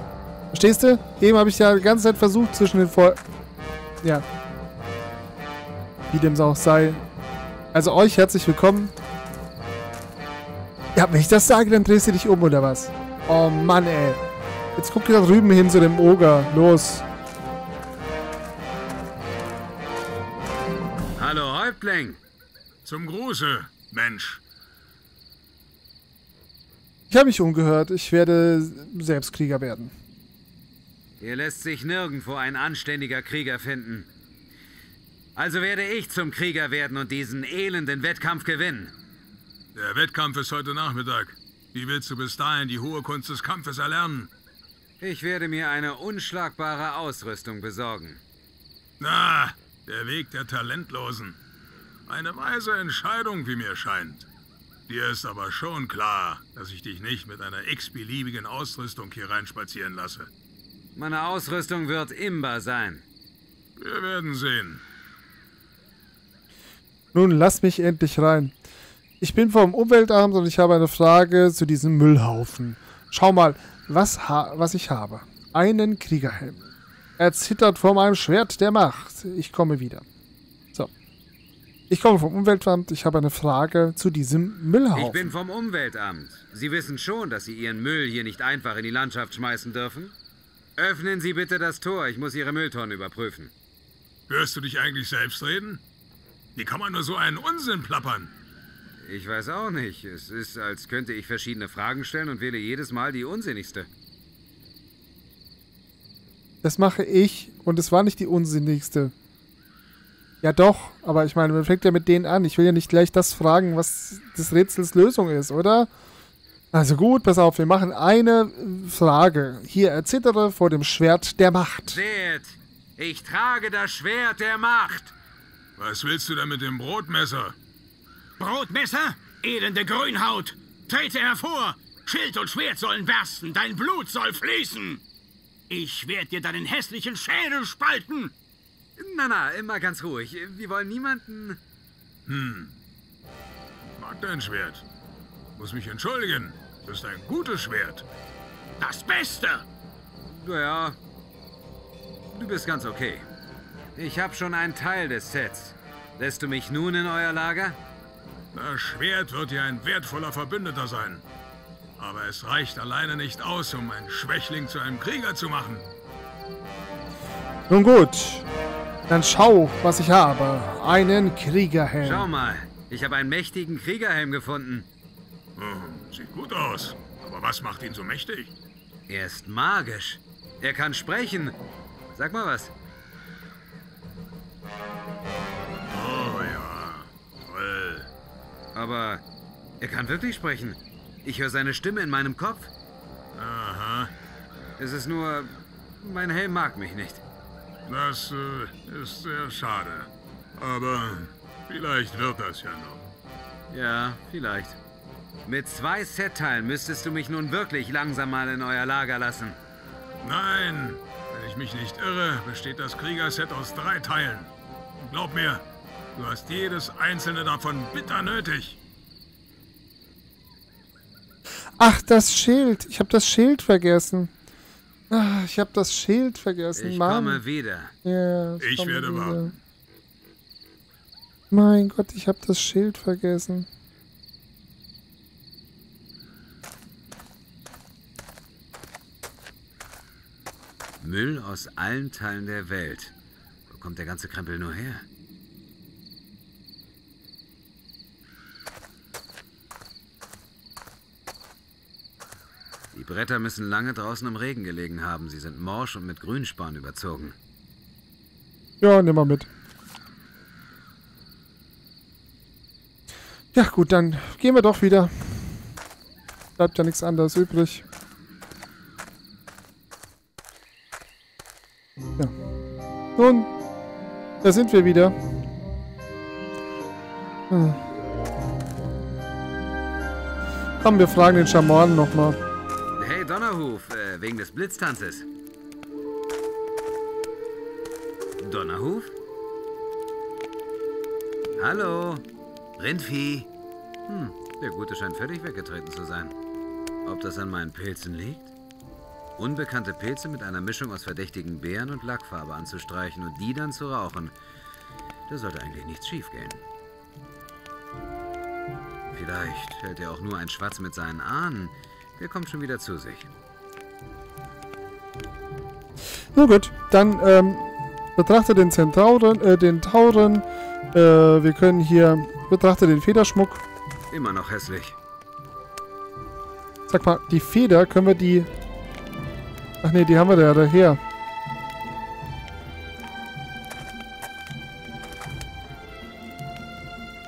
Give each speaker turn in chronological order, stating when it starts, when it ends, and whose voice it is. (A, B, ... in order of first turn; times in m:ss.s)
0:00.5-0:03.2 A
0:06.1-0:07.0 A
0:07.7-0:08.9 A
0:10.9-0:14.2 A
0:14.8-0:17.0 A
0:21.2-0:22.2 B
0:22.8-0:24.4 C
0:27.1-0:29.9 A
0:31.2-0:34.1 B
0:35.4-0:38.9 B
0:39.7-0:44.3 C
0:45.0-0:48.2 B
0:49.0-0:51.4 C
0:52.1-0:54.3 C
0:54.9-1:00.3 C
1:00.9-1:03.0 B
1:03.8-1:04.8 C
1:07.1-1:08.5 A
1:09.2-1:20.0 A
1:21.9-1:25.3 A
1:24.9-1:30.1 B
1:30.8-1:33.5 B
1:34.3-1:35.8 C
1:36.6-1:38.3 C
1:39.0-1:43.9 B
1:46.6-1:49.1 A
1:50.4-1:55.9 A
1:56.7-2:02.0 A
2:01.8-2:05.1 B
2:05.8-2:07.6 C
2:08.4-2:15.0 D
2:15.7-2:18.3 D
2:19.0-2:21.6 B
2:22.2-2:22.7 C
2:23.8-2:24.8 C
2:25.5-2:28.0 C
2:28.8-2:29.6 D
2:30.2-2:31.0 B
2:32.3-2:33.3 B
2:34.0-2:37.8 B
2:38.5-2:41.2 C
2:42.0-2:45.9 C
2:47.7-2:48.4 A
2:49.1-2:52.2 A
2:52.0-2:54.9 B
2:55.6-2:58.5 C
2:59.1-3:01.6 B
3:02.1-3:02.7 B
3:05.9-3:08.1 C
3:08.7-3:09.2 B
3:09.8-3:12.7 B
3:13.4-3:14.1 C
3:14.8-3:17.2 B
3:17.9-3:23.0 C
3:23.7-3:24.8 B
3:25.4-3:29.6 B
3:30.2-3:35.6 C
3:36.2-3:38.8 C
3:41.8-3:44.3 A
3:45.1-3:47.4 A
3:46.7-3:47.9 B
3:48.0-3:49.5 A
3:48.6-3:49.4 C
3:51.5-3:53.6 A
4:01.0-4:03.1 B
4:03.7-4:05.0 B
4:12.9-4:17.4 B
4:18.8-4:19.5 A
4:23.5-4:25.5 A
4:26.6-4:27.8 A
4:33.2-4:33.5 A
4:34.4-4:35.1 A
4:37.5-4:37.8 A
4:40.8-4:42.4 A
4:43.0-4:45.3 B
4:48.4-4:49.1 B
4:51.6-4:52.2 B
4:52.8-4:53.5 B
4:54.1-4:56.3 B
4:57.0-4:58.5 B
4:59.4-5:04.3 B
5:05.3-5:06.6 B
5:09.1-5:13.3 B
5:16.3-5:23.6 A
5:24.1-5:25.0 B
5:26.9-5:28.5 A
5:29.8-5:31.0 A